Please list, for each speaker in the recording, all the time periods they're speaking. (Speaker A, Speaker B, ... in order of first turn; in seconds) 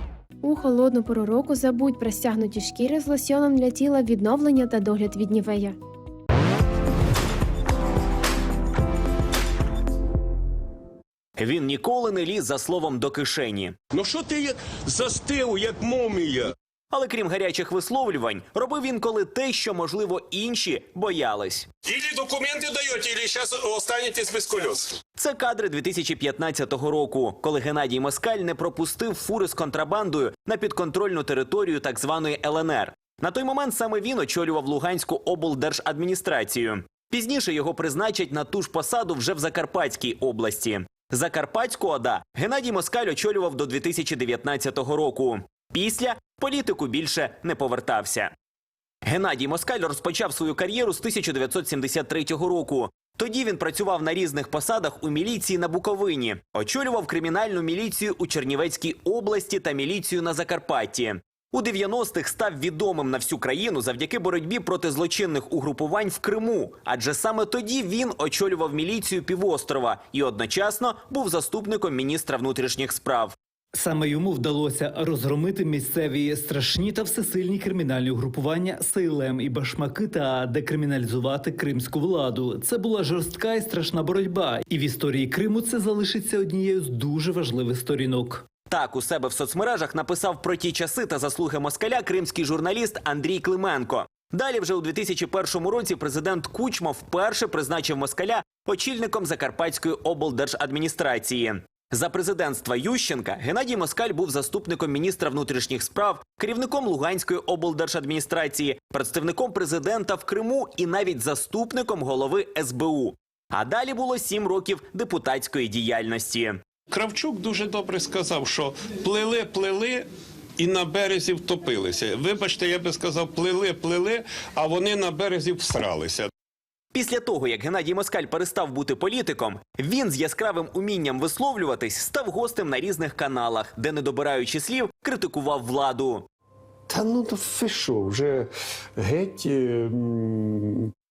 Speaker A: 0.4-5.8
Speaker B: 11.4-13.8, 16.9-21.7, 25.2-48.3, 49.1-73.3, 88.7-116.6, 126.9-136.2
Speaker C: 13.9-16.5, 21.9-25.0, 116.9-126.3
Speaker D: 73.7-88.4
Speaker E: 136.9-140.9